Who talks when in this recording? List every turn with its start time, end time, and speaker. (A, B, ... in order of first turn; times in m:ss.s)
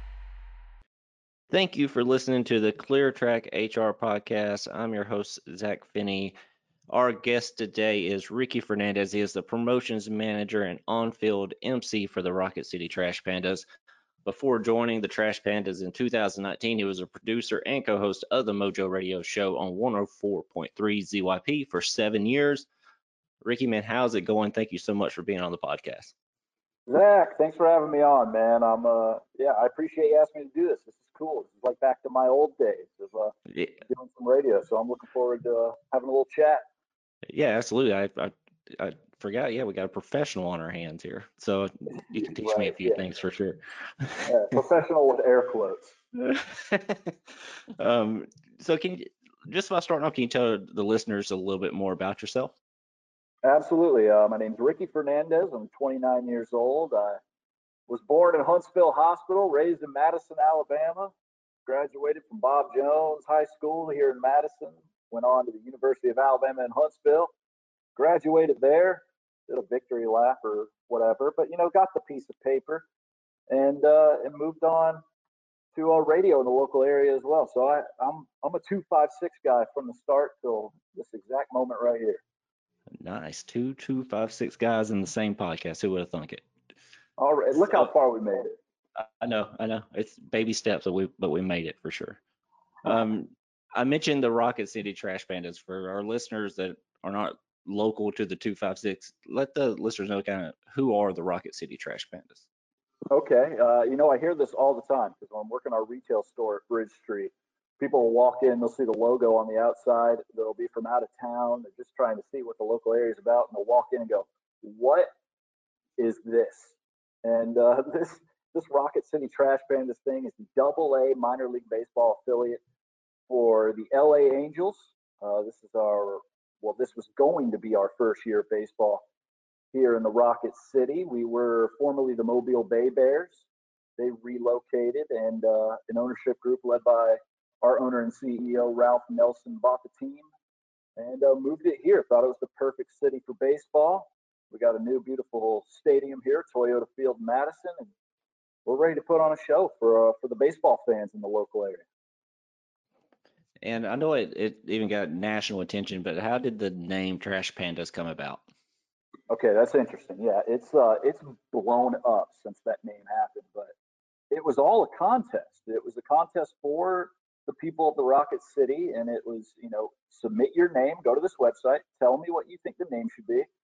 0:01.5-0:06.4 A
0:06.9-0:13.6 A
0:14.2-0:22.7 A
0:23.4-0:26.1 A
0:26.9-0:33.3 B
0:33.8-0:36.6 B
0:37.3-0:44.3 A
0:42.2-0:43.0 B
0:44.2-0:46.0 B
0:46.1-0:52.5 A
0:53.4-0:57.2 B
0:57.9-1:01.1 B
1:01.6-1:07.3 B
1:08.0-1:12.8 B
1:13.5-1:15.0 B
1:15.7-1:22.2 B
1:23.0-1:26.4 A
1:27.2-1:28.6 B
1:29.0-1:32.2 A
1:32.8-1:42.4 A
1:43.1-1:55.1 B
1:56.0-2:02.6 B
2:03.3-2:09.0 B
2:09.7-2:13.5 B
2:14.0-2:20.3 B
2:21.0-2:27.9 B
2:28.6-2:31.8 B
2:33.6-2:38.4 A
2:39.3-2:43.7 B
2:44.3-2:53.5 B